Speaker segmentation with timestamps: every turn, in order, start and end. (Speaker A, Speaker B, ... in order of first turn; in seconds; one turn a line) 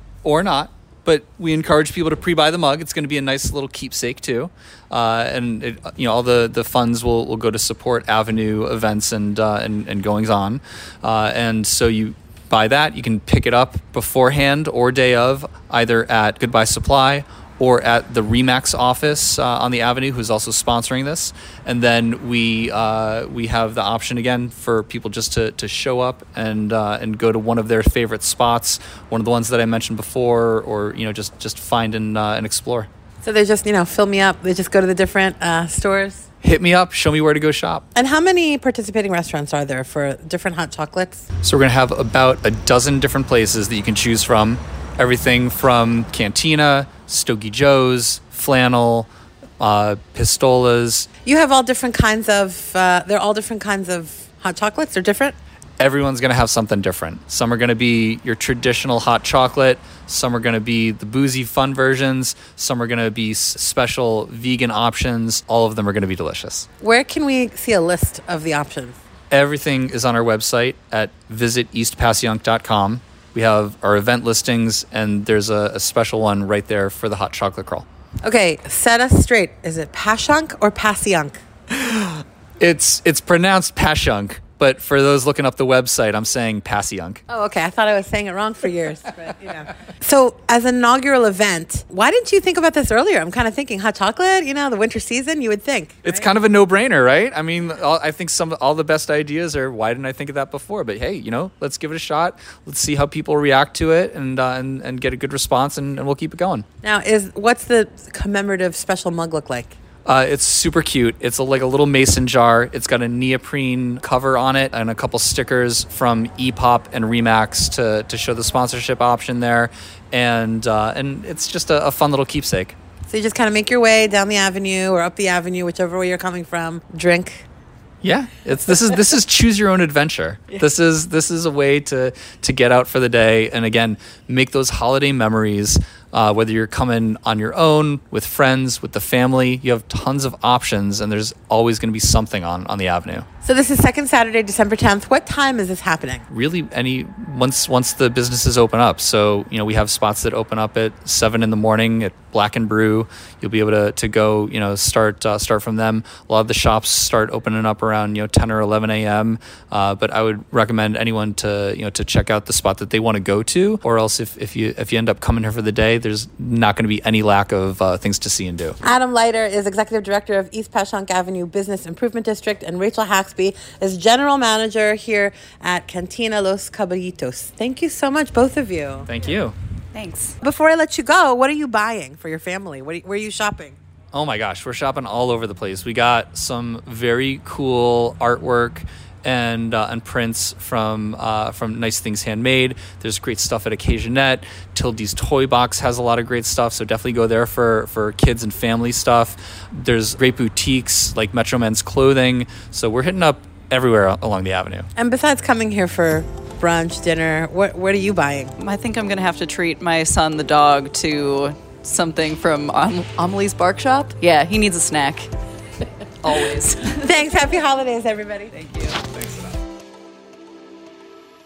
Speaker A: 0.2-32.9
Speaker B: 33.2-36.2
Speaker A: 36.4-37.8
Speaker B: 37.9-41.2
Speaker A: 41.4-49.1
Speaker A: 49.6-51.1
Speaker B: 51.2-55.4
Speaker A: 55.8-66.7
Speaker B: 66.8-69.0
Speaker A: 69.3-77.8
Speaker B: 78.2-81.4
Speaker A: 82.6-87.2
Speaker B: 87.3-96.3
Speaker A: 96.1-106.7
Speaker B: 106.8-109.7
Speaker A: 110.1-122.8
Speaker B: 123.1-127.5
Speaker A: 128.0-143.3
Speaker B: 143.4-146.2
Speaker A: 146.3-168.8
Speaker B: 168.8-179.1
Speaker C: 179.9-180.4
Speaker B: 180.4-183.8
Speaker A: 184.1-204.9
Speaker B: 205.0-208.5
Speaker C: 208.6-215.3
Speaker C: 216.2-217.0
Speaker B: 216.9-218.5
Speaker C: 218.5-219.5